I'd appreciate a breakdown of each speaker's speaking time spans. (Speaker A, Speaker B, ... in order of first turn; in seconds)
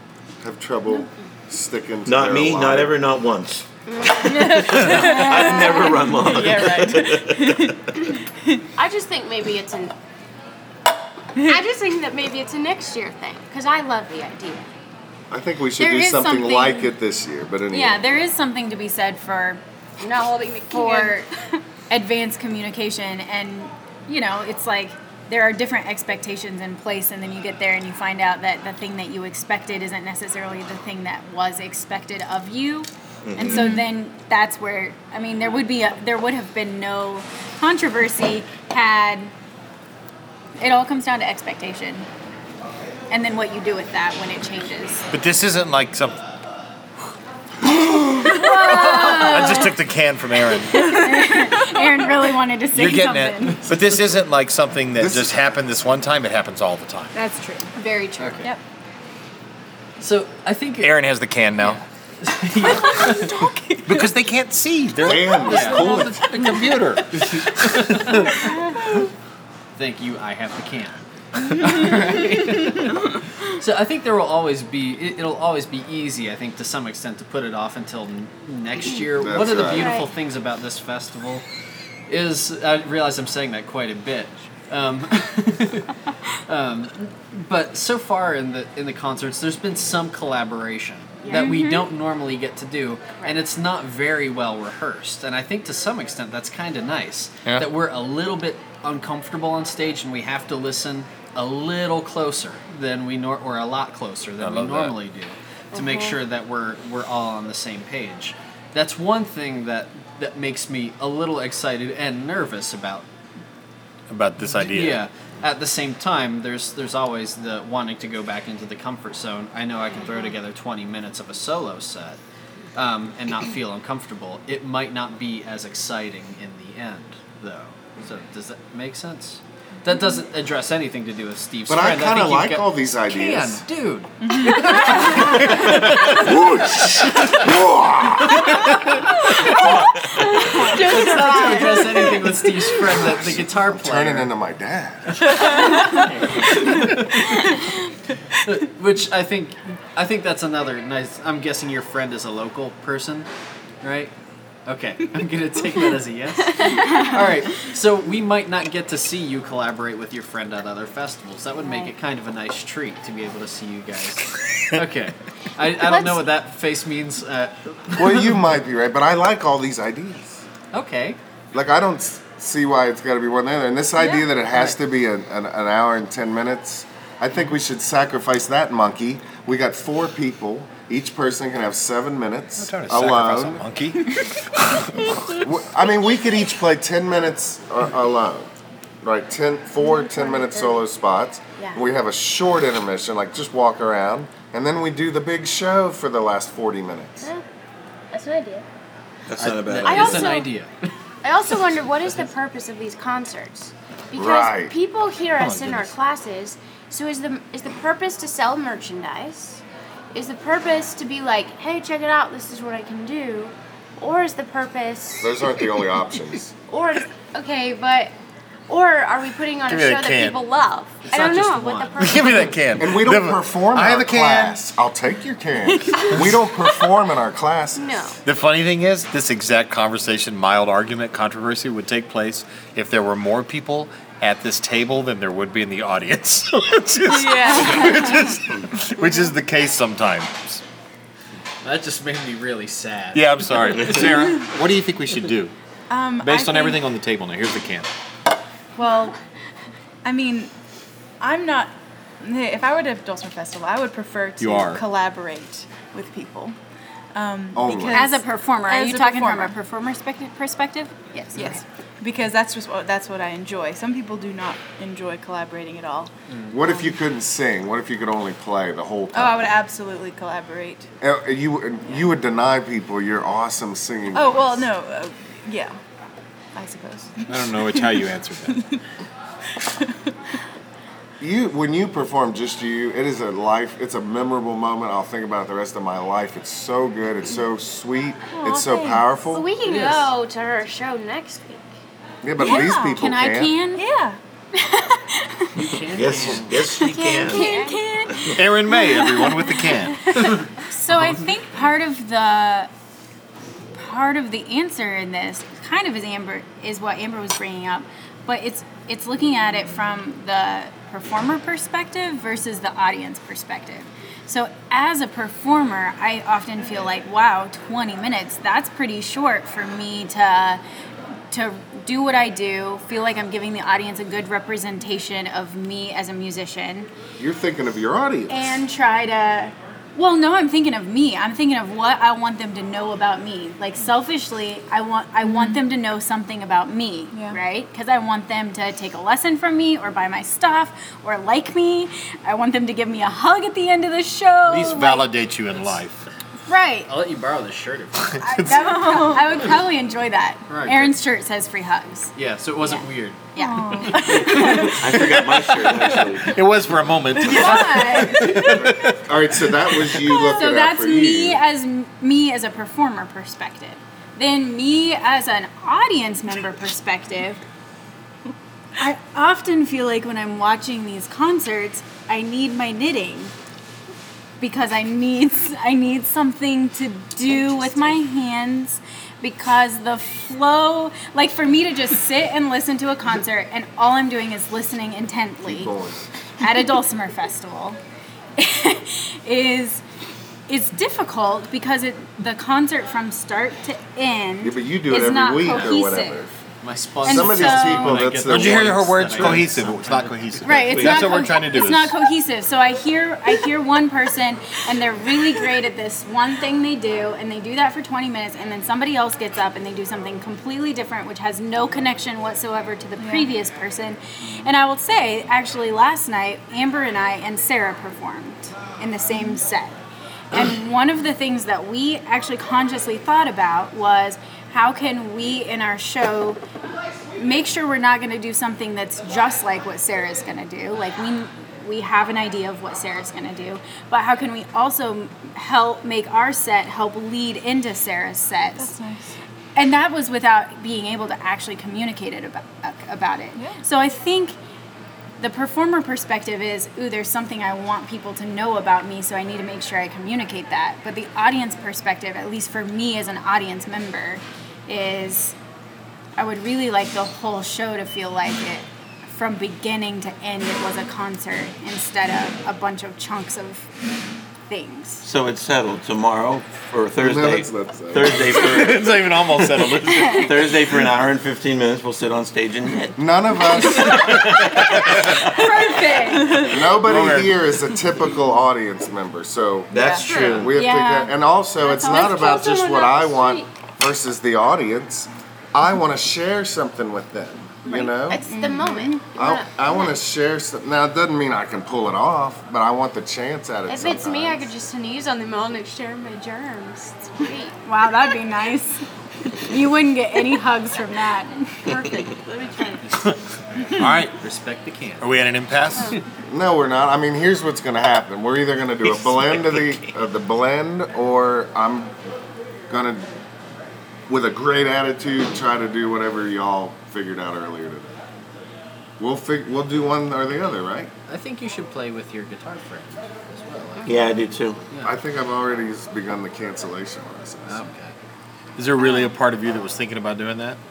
Speaker A: 0.4-3.0, 15.3-18.1, 55.0-55.5, 65.0-66.2, 79.1-80.0, 131.7-133.6, 136.2-138.5, 142.8-145.3, 167.9-170.4, 171.5-183.6, 185.3-188.5, 189.0-197.3, 204.1-204.7, 215.2-216.5, 222.8-228.0, 257.6-258.1, 266.5-269.5, 271.0-274.7, 281.2-289.5, 292.2-293.6, 327.2-328.6, 358.6-361.4, 385.4-386.0, 394.4-396.3, 397.0-399.5, 467.0-468.4, 473.0-474.9, 476.4-488.2, 489.1-494.5, 506.3-511.9, 512.7-513.1, 514.1-517.9, 519.0-520.9, 524.8-527.6
Speaker B: 2.0-3.7, 4.3-7.7, 33.2-33.7, 199.3-200.4, 295.9-297.5, 298.1-298.4, 354.7-356.5, 400.6-401.2, 465.0-473.0, 473.5-475.3, 479.7-480.6, 508.9-509.8, 523.9-524.6
Speaker C: 3.9-5.1, 8.8-9.9, 11.4-14.7, 20.0-21.2, 57.8-58.5, 79.7-80.1, 91.2-91.6, 105.7-106.2, 120.0-120.3, 156.6-157.1, 161.6-161.9, 165.8-166.2, 189.8-190.9, 191.6-191.8, 198.1-198.7, 199.8-200.5, 201.2-209.6, 210.1-215.3, 216.7-218.1, 218.7-222.6, 227.8-228.2, 289.3-291.7, 296.8-297.8, 377.4-377.9, 480.1-480.4, 481.6-483.5, 487.6-490.0, 493.7-497.6, 501.6-502.8, 505.7-506.0, 523.8-524.1
Speaker D: 4.2-8.6, 33.5-33.8, 51.1-51.5, 62.6-64.1, 66.2-66.7, 134.2-135.3, 139.1-142.7, 145.3-146.1, 225.9-226.1, 237.1-238.3, 245.9-246.8, 248.8-249.2, 250.0-250.5, 251.2-256.6, 257.1-259.6, 261.3-266.1, 266.6-266.9, 269.1-270.9, 274.1-275.8, 276.6-278.8, 279.7-280.1, 288.3-289.1, 292.4-293.0, 293.8-294.2, 335.2-335.6, 337.1-337.4, 353.4-354.8, 413.0-413.3, 438.6-439.2, 443.4-443.7, 475.9-476.7, 479.7-480.1
Speaker E: 15.8-16.9, 17.7-19.6, 20.7-21.2, 21.9-39.3, 40.6-42.1, 43.1-45.1, 48.1-49.8, 50.6-53.6, 57.1-57.8, 91.3-91.9, 257.9-261.6, 292.4-293.8, 294.6-295.7, 296.7-302.7, 303.7-320.6, 321.3-326.9, 328.3-345.1, 346.5-346.9, 348.2-354.7, 357.2-358.6, 360.0-367.4, 368.8-373.3, 374.4-385.7, 386.4-387.8, 388.4-389.8, 390.5-396.2, 397.1-398.0, 400.4-419.8, 420.3-426.4, 427.1-438.7, 439.6-444.4, 445.2-455.3, 456.2-463.7, 464.5-465.1, 469.9-470.3, 475.1-476.4, 480.5-482.3, 488.3-489.0, 497.6-498.8, 499.4-501.9
Speaker F: 45.1-46.1, 48.6-51.0, 52.7-57.1, 60.8-61.8, 63.9-68.4, 104.4-104.9, 114.1-115.0, 135.6-136.1, 182.6-185.4, 205.4-205.9, 219.7-220.4, 222.0-224.6, 228.2-240.6, 243.1-245.5, 246.2-247.9, 254.4-254.8, 277.3-278.6, 298.3-300.3, 344.4-346.0, 348.0-349.0, 354.9-355.2, 356.3-359.0, 398.2-402.0, 468.3-470.5, 476.8-477.4, 503.7-504.2, 505.0-506.0, 528.6-530.6
Speaker G: 58.2-58.5, 60.0-61.0, 61.6-63.4, 65.4-66.1, 67.1-68.4, 69.8-81.4, 82.1-86.0, 86.5-113.1, 114.5-122.2, 122.7-136.2, 140.6-144.3, 145.4-147.5, 148.4-153.3, 153.8-154.1, 154.7-168.2, 170.7-171.2, 199.4-200.9, 221.0-222.3, 241.6-244.0, 266.3-266.5, 289.6-290.1, 295.6-296.6, 346.9-348.2, 350.5-350.9, 352.1-353.2, 354.0-354.7, 355.6-356.1, 396.6-400.4, 502.9-505.1, 521.1-524.9, 527.5-527.9